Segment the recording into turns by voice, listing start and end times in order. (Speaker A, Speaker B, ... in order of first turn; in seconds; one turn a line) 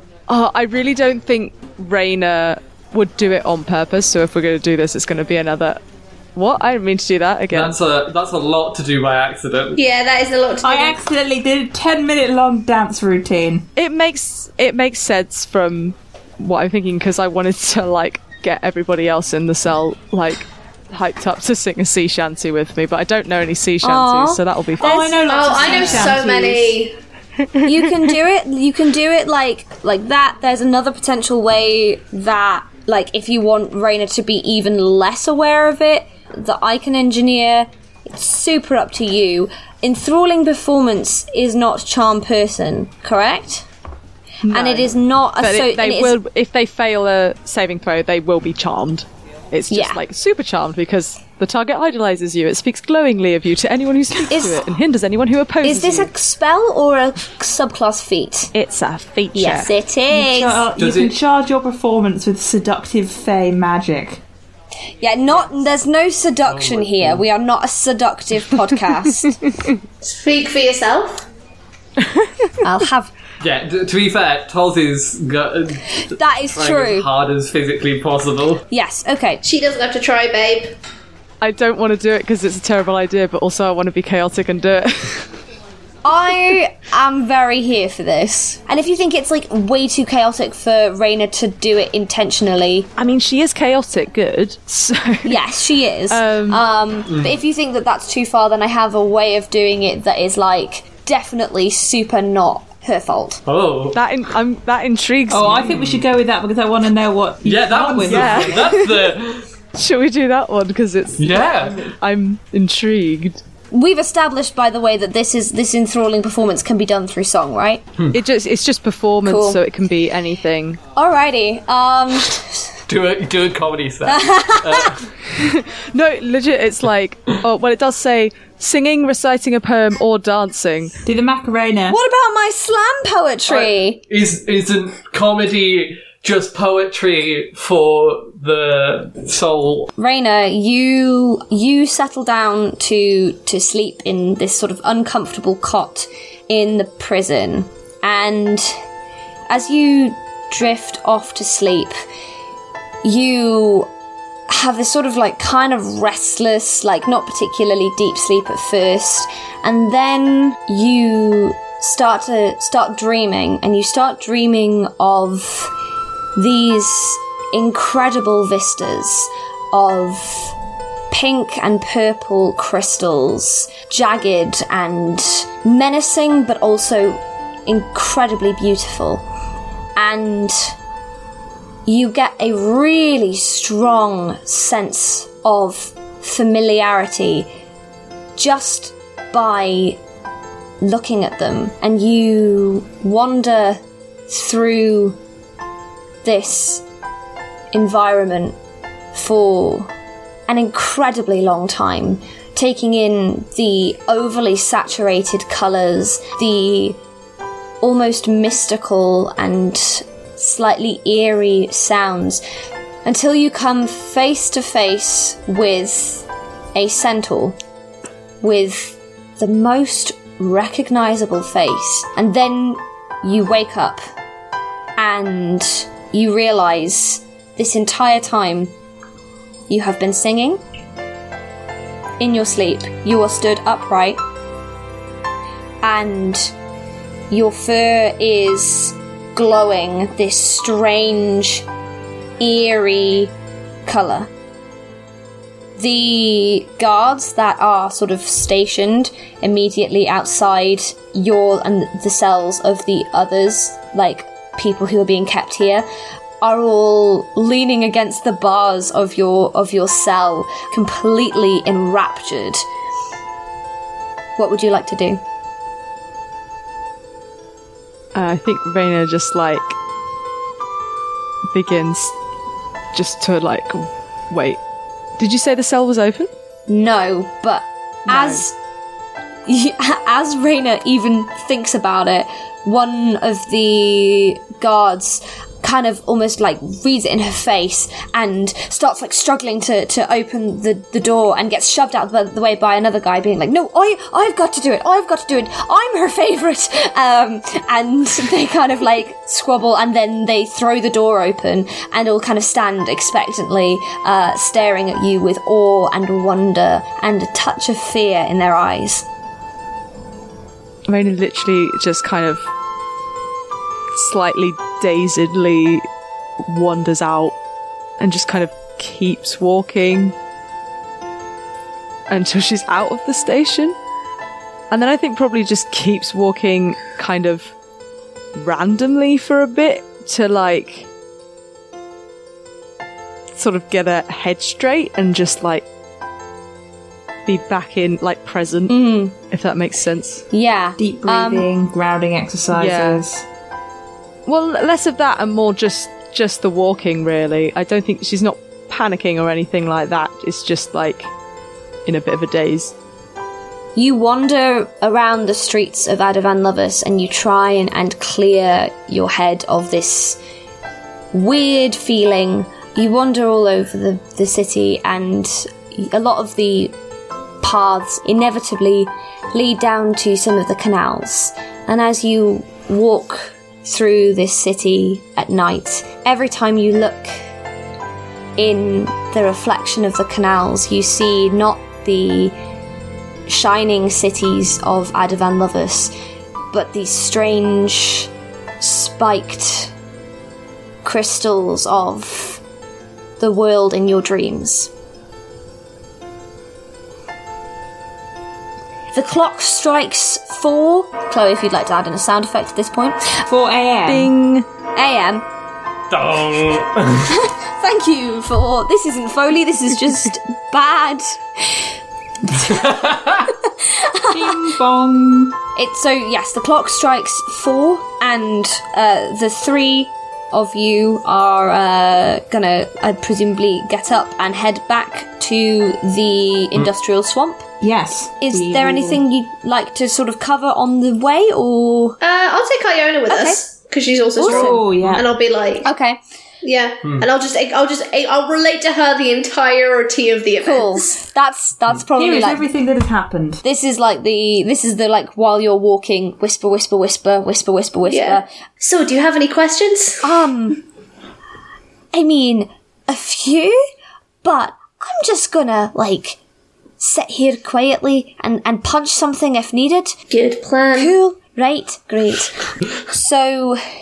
Speaker A: 0.3-5.8
Speaker A: 6.4-7.7
Speaker B: 7.5-9.8
Speaker C: 9.8-11.0
Speaker D: 10.6-13.7
Speaker A: 13.8-26.1
Speaker E: 23.8-24.4
Speaker D: 24.8-26.8
Speaker C: 25.2-26.9
Speaker A: 27.5-28.1
Speaker E: 27.6-43.7
Speaker A: 44.5-56.1
Speaker E: 44.5-46.2
Speaker E: 49.7-50.0
Speaker E: 54.3-54.6
Speaker E: 55.6-58.5
Speaker A: 58.5-59.7
Speaker E: 59.3-60.7
Speaker D: 60.1-64.2
Speaker B: 60.8-61.1
Speaker E: 65.0-69.4
Speaker B: 66.5-67.2
Speaker C: 70.0-71.3
Speaker A: 72.1-72.5
Speaker E: 72.6-73.1
Speaker B: 73.4-78.6
Speaker E: 76.1-77.1
Speaker E: 78.7-79.4
Speaker C: 79.4-80.7
Speaker A: 81.4-85.3
Speaker E: 86.0-92.9
Speaker A: 93.0-95.4
Speaker E: 95.2-103.4
Speaker A: 96.1-96.6
Speaker B: 97.0-97.4
Speaker B: 103.5-104.0
Speaker A: 103.9-105.7
Speaker D: 105.3-108.7
Speaker B: 105.7-106.0
Speaker B: 107.4-109.5
Speaker A: 108.0-109.1
Speaker A: 109.7-113.4
Speaker B: 111.2-111.9
Speaker E: 113.7-117.8
Speaker A: 118.1-120.8
Speaker E: 119.2-119.6
Speaker E: 121.0-122.7
Speaker B: 122.9-125.0
Speaker E: 124.0-125.0
Speaker A: 125.3-131.0
Speaker D: 131.1-132.0
Speaker E: 131.9-134.0
Speaker B: 133.5-139.9
Speaker E: 140.0-148.8
Speaker E: 149.5-151.9
Speaker E: 153.0-153.9
Speaker E: 154.5-165.7
Speaker E: 166.4-170.6
Speaker E: 171.1-179.2
Speaker E: 179.9-180.8
Speaker E: 181.9-187.5
Speaker E: 188.4-190.0
Speaker E: 190.8-195.2
Speaker E: 196.2-196.8
Speaker E: 197.7-198.6
Speaker E: 199.1-199.9
Speaker E: 200.5-207.0
Speaker E: 207.8-212.4
Speaker E: 213.1-217.6
Speaker E: 218.4-224.0
Speaker E: 225.0-228.7
Speaker E: 229.7-230.6
Speaker E: 232.2-234.2
Speaker E: 235.8-236.5
Speaker E: 237.3-241.6
Speaker E: 242.4-243.3
Speaker E: 243.9-244.3
Speaker E: 245.8-255.9
Speaker E: 256.4-262.6
Speaker E: 264.4-265.2
Speaker A: 268.1-269.8
Speaker A: 271.5-272.1
Speaker A: 272.9-274.6
Speaker A: 275.2-276.3
Speaker E: 276.7-278.6
Speaker A: 278.1-278.4
Speaker E: 279.5-309.1
Speaker A: 310.9-312.5
Speaker A: 313.9-315.9
Speaker A: 316.4-317.4
Speaker A: 318.0-320.1
Speaker A: 322.1-323.8
Speaker A: 324.7-327.5
Speaker A: 328.4-330.9
Speaker A: 333.3-335.6
Speaker A: 337.3-340.2
Speaker E: 338.7-339.1
Speaker E: 340.3-341.5
Speaker D: 340.8-343.2
Speaker A: 342.5-343.1
Speaker A: 344.3-351.1
Speaker A: 351.9-352.7
Speaker E: 353.8-360.2
Speaker E: 361.1-366.7
Speaker E: 367.4-377.2
Speaker E: 378.4-382.4
Speaker E: 383.3-385.9
Speaker E: 386.5-388.1
Speaker E: 388.6-389.7
Speaker E: 390.8-392.4
Speaker E: 393.2-394.7
Speaker E: 398.9-403.1
Speaker D: 403.3-404.1
Speaker A: 403.9-404.4
Speaker E: 404.7-405.2
Speaker B: 405.9-407.1
Speaker E: 407.0-411.6
Speaker E: 412.3-412.6
Speaker B: 412.4-413.3
Speaker E: 413.2-414.5
Speaker D: 414.1-415.4
Speaker E: 415.6-427.5
Speaker D: 427.6-429.0
Speaker E: 428.2-432.0
Speaker C: 432.0-435.7
Speaker E: 433.1-433.4
Speaker E: 434.2-434.7
Speaker D: 434.2-435.1
Speaker E: 435.6-436.0
Speaker C: 436.4-441.0
Speaker E: 440.4-442.5
Speaker D: 441.9-443.4
Speaker E: 443.4-448.3
Speaker C: 447.9-450.0
Speaker E: 450.0-450.6
Speaker E: 451.9-453.6
Speaker E: 454.2-456.2
Speaker E: 456.8-460.0
Speaker C: 460.1-460.9
Speaker E: 460.7-463.6